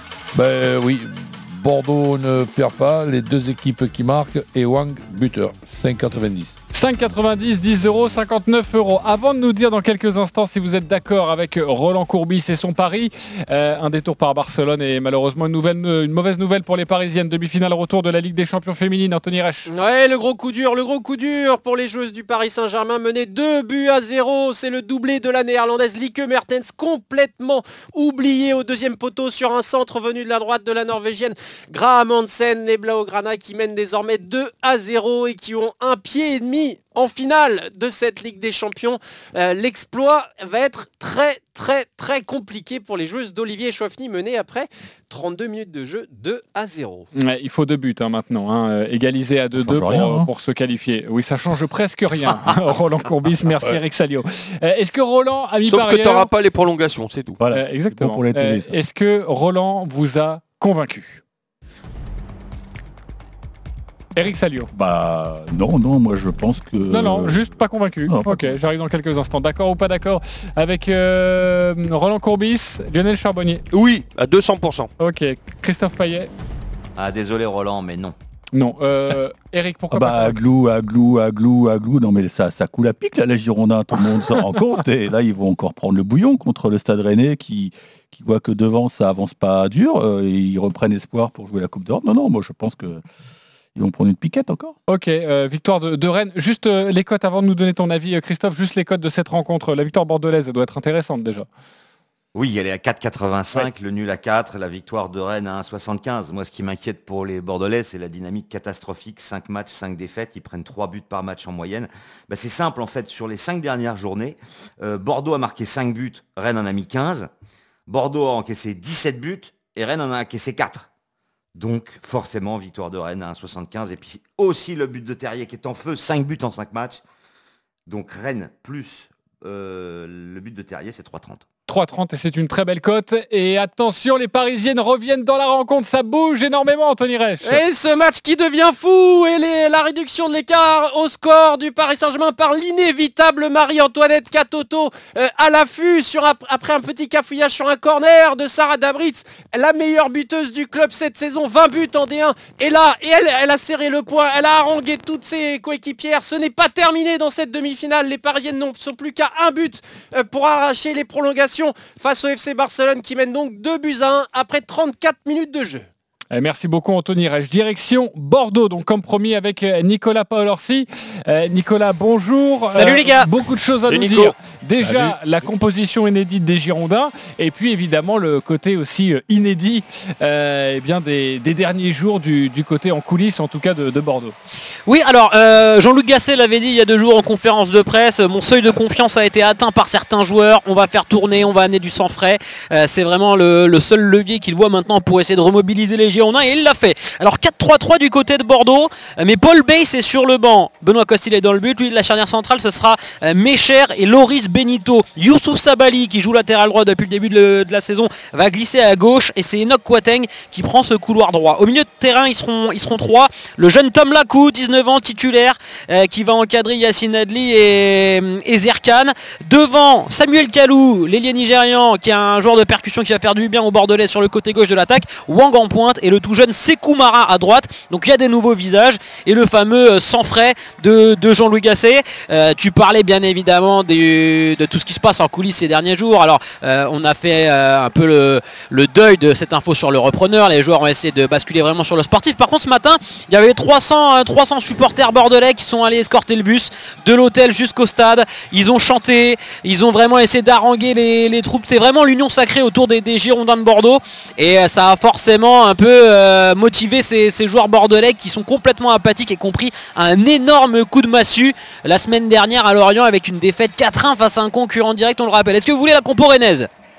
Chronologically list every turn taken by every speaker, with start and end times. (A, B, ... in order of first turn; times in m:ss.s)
0:00.3-0:06.6 A
0:06.7-0:19.7 B
0:19.7-0:47.1 C
0:47.1-0:56.3 B
0:49.6-0:50.3 D
0:55.7-0:57.4 E
0:57.4-0:58.8 D
0:57.5-1:01.2 B
1:04.2-1:04.7 B
1:04.7-1:08.6 D
1:06.9-1:13.6 B
1:13.7-1:14.9 E
1:15.0-1:16.3 B
1:17.0-1:18.2 F
1:18.5-1:20.4 B
1:19.9-1:33.0 D
1:33.8-1:34.8 D
1:34.9-1:41.5 B
1:42.3-1:57.3 F
1:57.9-2:00.9 F
2:01.6-2:07.0 F
2:07.9-2:11.4 F
2:11.7-2:17.6 B
2:17.4-2:45.9 C
2:46.3-3:04.4 B
2:52.7-2:53.3 G
2:53.9-2:54.3 E
2:54.8-2:55.2 A
3:04.9-4:26.7 G